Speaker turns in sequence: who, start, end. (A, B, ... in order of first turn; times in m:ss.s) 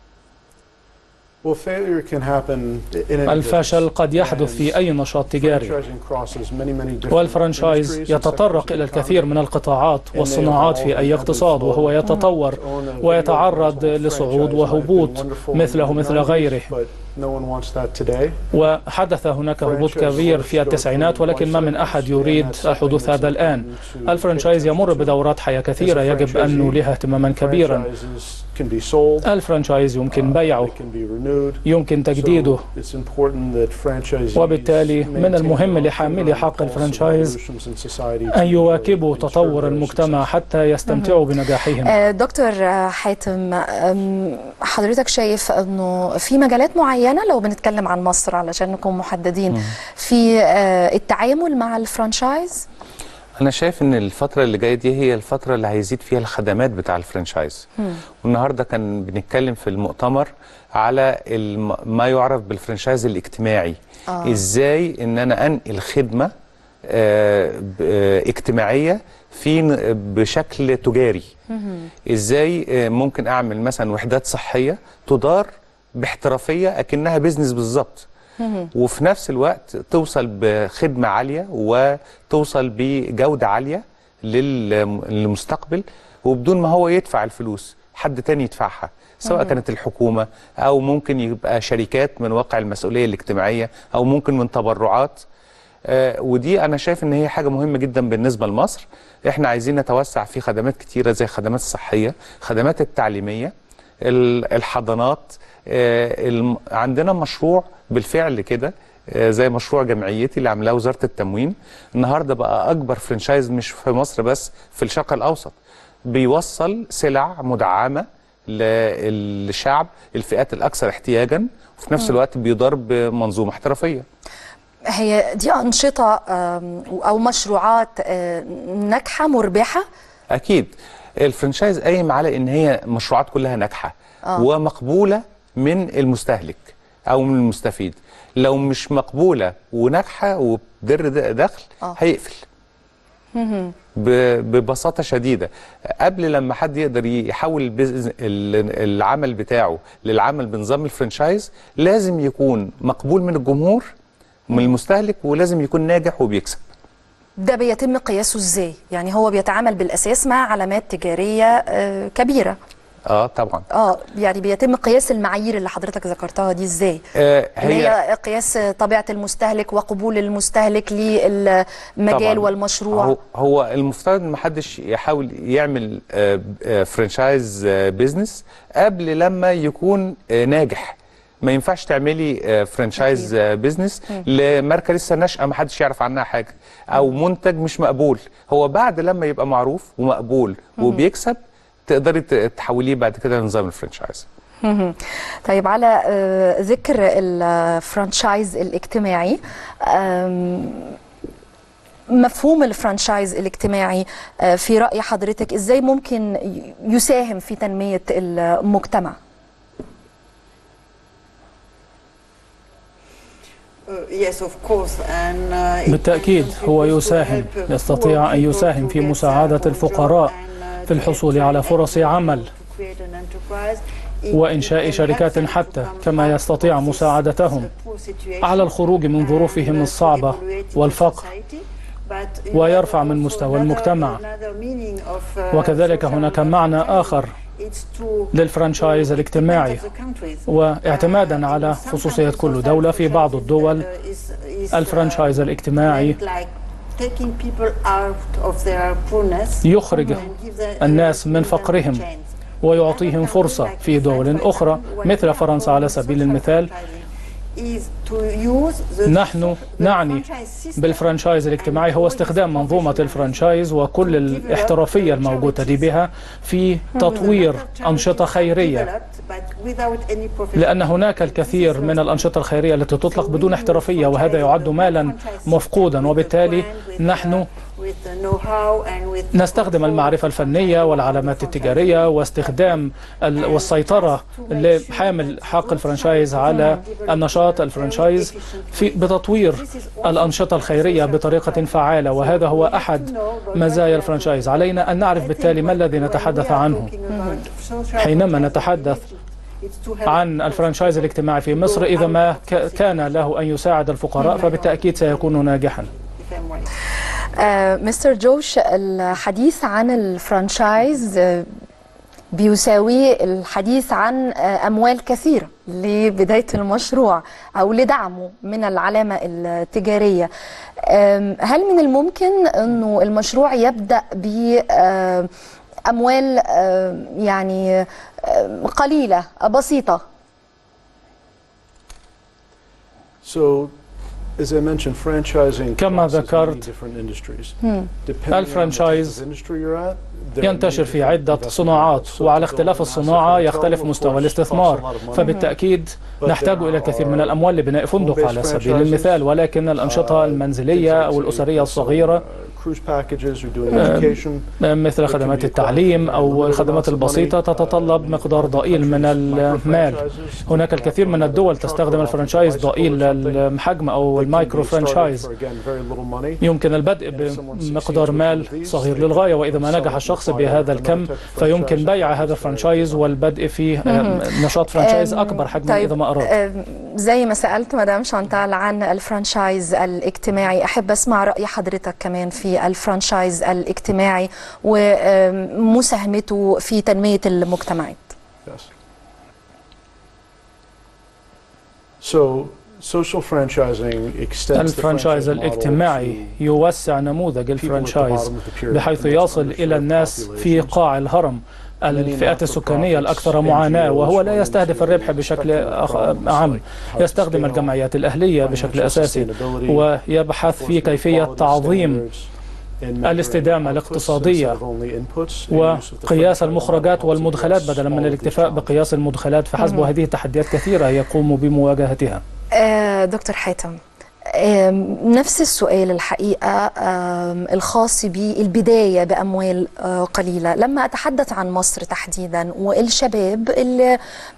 0:01.4-0:09.4 A
0:03.3-0:05.8 B
0:07.1-0:16.7 B
0:10.1-0:18.5 A
0:18.5-0:27.9 B
0:19.6-0:29.3 A
0:29.2-0:30.7 B
0:30.1-0:40.4 A
0:31.6-0:32.6 B
0:34.4-0:37.4 B
0:38.3-0:42.0 B
0:40.9-0:41.2 C
0:41.8-0:52.7 C
0:53.4-0:57.7 D
0:58.2-1:06.3 D
1:04.1-1:04.4 C
1:06.8-1:11.3 D
1:11.5-1:11.9 C
1:12.1-1:18.1 D
1:18.4-1:18.7 C
1:18.7-1:35.2 D
1:29.3-1:29.6 C
1:35.9-1:55.6 D
1:56.1-2:04.0 D
2:04.9-2:09.9 C
2:10.3-2:22.4 D
2:23.4-2:23.7 C
2:24.0-2:33.9 D
2:34.5-2:36.6 D
2:37.4-2:42.6 C
2:43.1-2:43.6 D
2:43.7-2:47.0 C
2:47.2-2:48.0 D
2:47.6-2:53.2 C
2:52.1-3:14.3 D
3:14.6-3:21.0 C
3:22.1-3:29.2 C
3:33.9-4:25.9 E
3:35.9-3:40.3 B
3:40.9-3:42.5 B
3:44.3-3:47.7 B
3:48.4-3:51.3 B
3:52.5-3:54.2 B
3:55.5-3:57.3 B
3:58.3-3:59.8 B
4:00.5-4:03.9 B
4:04.7-4:06.2 B
4:09.6-4:10.2 B
4:09.9-4:10.2 C
4:10.8-4:12.0 B
4:12.6-4:16.7 B
4:19.1-4:20.2 B
4:20.8-4:28.9 B
4:27.0-4:27.3 C
4:27.0-4:32.4 E
4:30.6-4:37.5 B
4:33.0-4:42.8 E
4:39.3-4:56.9 B
4:43.4-5:03.3 E
4:46.5-4:46.8 C
4:57.1-4:57.4 C
4:58.0-4:59.0 B
5:00.1-5:05.9 B
5:04.2-5:04.5 C
5:04.2-5:05.5 E
5:06.1-5:06.7 E
5:07.4-5:11.5 C
5:12.3-5:20.3 C
5:20.8-5:25.3 C
5:25.9-5:30.0 C
5:33.2-5:45.6 A
5:35.8-5:36.7 B
5:38.3-5:39.2 B
5:40.4-5:52.2 B
5:45.2-5:45.5 C
5:46.2-6:06.5 A
5:53.7-6:05.3 B
6:06.4-6:16.3 B
6:07.0-6:13.3 A
6:13.8-6:28.1 C
6:32.0-6:36.6 A
6:34.6-6:52.0 B
6:37.5-6:40.8 A
6:41.9-6:59.0 A
6:53.0-6:54.6 B
6:55.5-7:02.2 B
6:59.6-6:59.9 C
7:02.6-7:03.8 C
7:04.3-7:14.0 C